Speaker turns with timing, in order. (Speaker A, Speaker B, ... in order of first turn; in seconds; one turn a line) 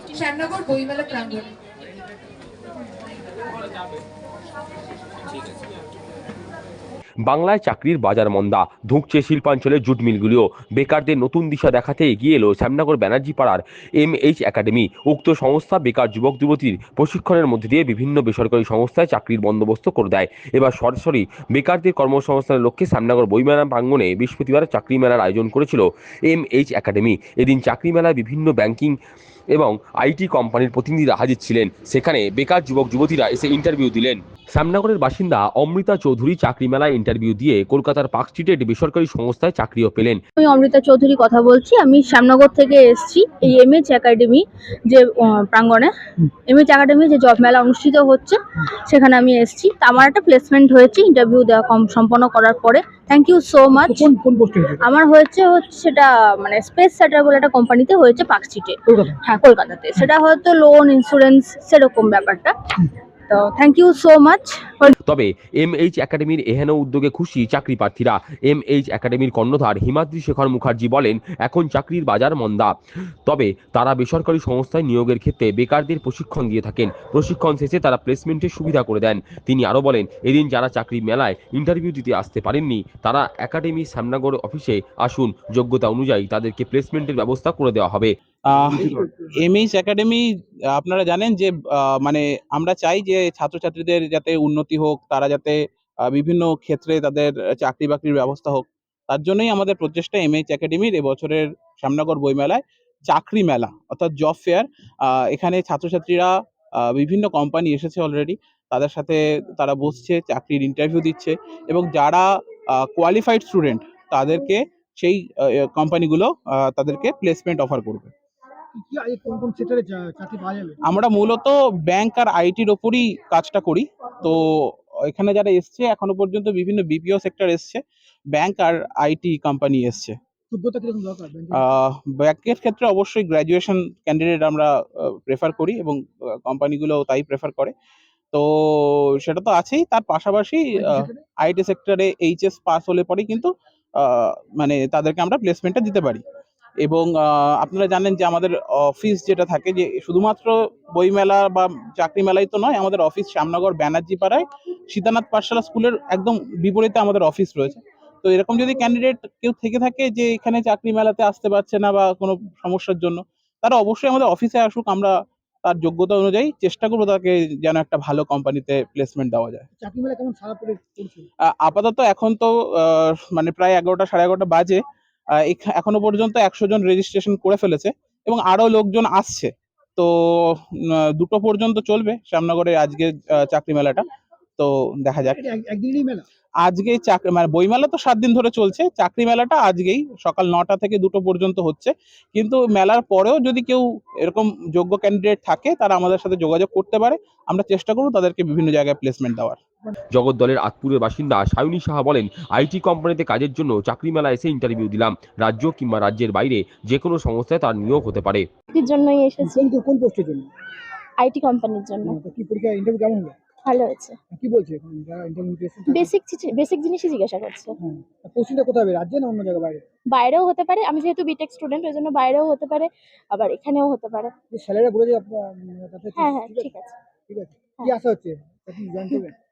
Speaker A: 7.2-29.0
Speaker A: 29.5-40.2
Speaker B: 40.4-45.9
Speaker B: 46.5-54.1
Speaker C: 53.7-54.8
Speaker B: 54.8-62.5
Speaker C: 58.9-59.2
Speaker B: 63.3-64.9
Speaker A: 65.0-72.8
Speaker A: 73.3-88.1
Speaker D: 88.5-90.2
Speaker C: 88.6-89.3
Speaker D: 90.7-95.6
Speaker D: 96.1-106.3
Speaker D: 106.8-112.2
Speaker D: 112.8-118.1
Speaker C: 118.8-120.8
Speaker D: 120.9-127.8
Speaker D: 128.3-130.2
Speaker C: 130.5-131.8
Speaker D: 131.6-134.7
Speaker D: 135.3-137.7
Speaker D: 138.3-146.2
Speaker C: 140.8-141.2
Speaker D: 146.8-165.1
Speaker D: 165.7-169.7
Speaker C: 169.8-171.3
Speaker D: 171.5-174.8
Speaker D: 175.5-180.7
Speaker D: 181.2-184.0
Speaker D: 184.6-185.4
Speaker C: 185.2-186.2
Speaker D: 186.7-199.6
Speaker A: 200.1-208.5
Speaker E: 208.7-209.7
Speaker C: 209.4-210.5
Speaker E: 211.2-212.2
Speaker C: 212.1-213.3
Speaker E: 213.7-214.2
Speaker C: 214.3-216.1
Speaker E: 215.9-217.7
Speaker C: 217.8-219.8
Speaker E: 220.1-224.3
Speaker C: 224.5-226.8
Speaker E: 226.2-227.0
Speaker C: 227.3-229.3